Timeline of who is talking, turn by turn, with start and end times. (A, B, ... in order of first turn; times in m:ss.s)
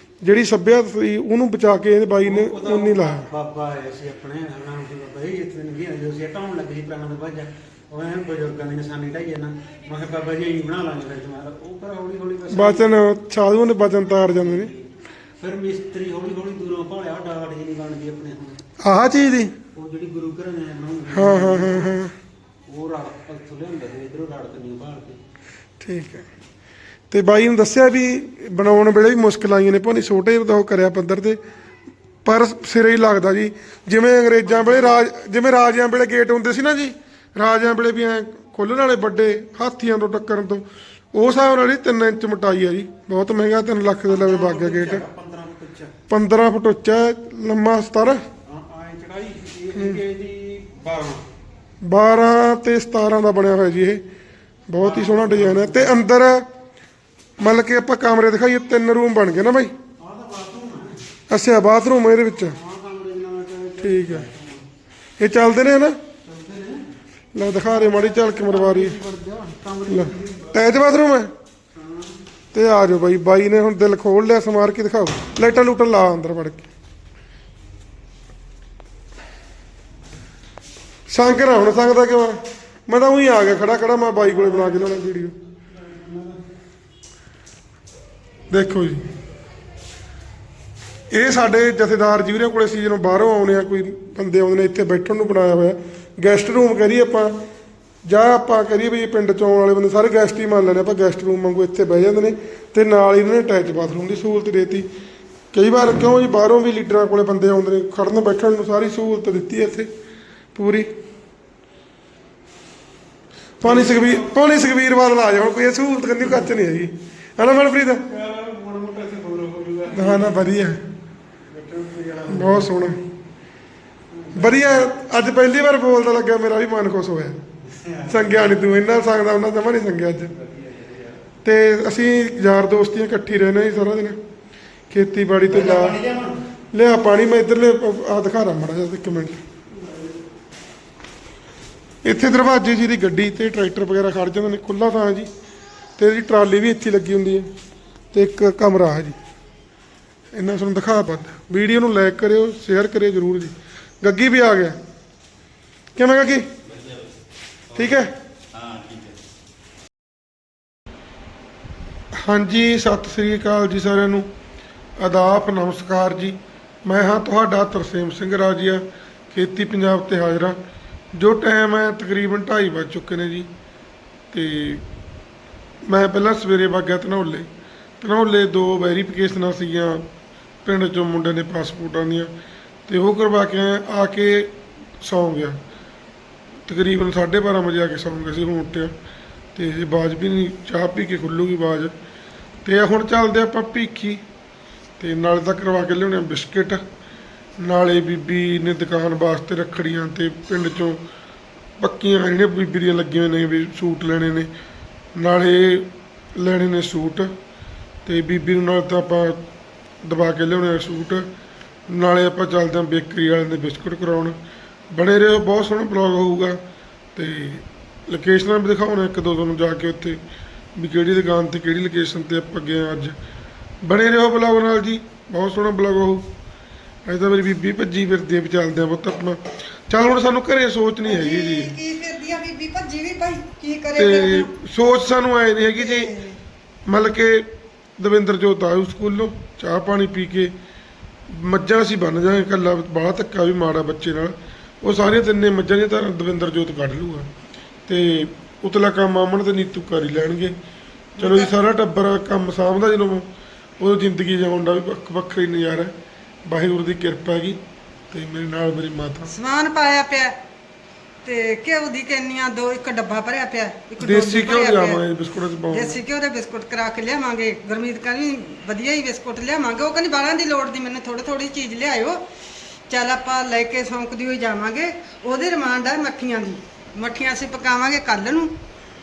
0:00.2-0:03.2 A
0:02.2-0:13.0 B
0:12.5-0:14.7 A
0:14.2-0:14.9 B
0:15.4-0:18.6 B
0:18.8-0:19.5 A
0:19.7-0:22.0 B
0:21.1-0:22.1 A
0:22.7-0:25.2 B
0:25.8-0:26.2 A
0:27.1-0:31.4 A
0:32.2-0:45.0 A
0:34.4-0:35.0 B
0:44.0-0:45.9 B
0:46.1-0:48.2 A
0:48.4-0:51.2 B
0:49.7-0:50.0 A
0:51.8-0:54.0 A
0:54.7-0:56.4 A
0:54.8-0:56.0 B
0:57.4-0:59.7 A
1:00.0-1:01.0 B
1:01.3-1:02.6 A
1:02.4-1:04.6 B
1:03.8-1:04.3 A
1:05.2-1:06.0 A
1:06.2-1:06.9 B
1:07.3-1:09.0 A
1:07.6-1:10.7 B
1:09.9-1:11.3 A
1:11.7-1:12.2 B
1:12.5-1:16.7 A
1:21.1-1:25.3 A
1:24.2-1:24.9 B
1:25.7-1:26.4 B
1:28.5-1:29.1 A
1:31.1-1:37.4 A
1:38.0-1:44.8 A
1:45.5-1:49.9 A
1:50.5-1:50.9 A
1:53.6-1:58.0 A
1:53.6-1:54.3 B
1:58.0-2:00.5 B
1:59.9-2:00.8 A
2:01.5-2:02.7 B
2:02.3-2:03.0 A
2:04.1-2:04.9 B
2:04.4-2:07.4 A
2:07.7-2:08.7 B
2:08.1-2:10.3 A
2:10.4-2:11.1 B
2:11.4-2:14.2 A
2:14.9-2:16.0 A
2:15.5-2:16.4 B
2:16.7-2:19.4 A
2:22.0-2:25.3 A
2:26.0-2:27.5 A
2:28.1-2:29.1 A
2:30.3-2:34.8 A
2:36.0-2:36.5 A
2:37.7-2:38.1 A
2:42.2-2:44.3 A
2:45.0-2:50.6 A
2:51.1-2:53.5 A
2:54.3-2:54.8 A
2:55.8-2:57.5 A
2:58.0-3:00.1 A
3:00.6-3:02.3 A
3:02.9-3:05.6 A
3:06.6-3:08.9 A
3:09.5-3:11.9 A
3:12.6-3:14.2 A
3:15.0-3:16.8 A
3:17.6-3:21.0 A
3:21.8-3:24.5 A
3:25.1-3:27.3 A
3:28.0-3:29.4 A
3:30.0-3:31.2 A
3:31.9-3:34.4 A
3:34.9-3:36.6 A
3:37.1-3:40.2 A
3:40.8-3:43.2 A
3:43.8-3:46.3 A
3:47.0-3:51.8 A
3:51.0-3:54.5 C
3:54.0-3:56.1 A
3:55.7-3:56.4 C
3:56.9-4:00.5 A
4:01.3-4:07.3 A
4:07.9-4:10.5 A
4:11.2-4:11.5 C
4:11.2-4:13.3 A
4:13.8-4:15.9 A
4:16.4-4:17.6 A
4:18.1-4:19.3 A
4:19.2-4:20.4 C
4:21.2-4:25.0 C
4:24.0-4:26.0 A
4:25.7-4:32.2 C
4:32.9-4:38.5 C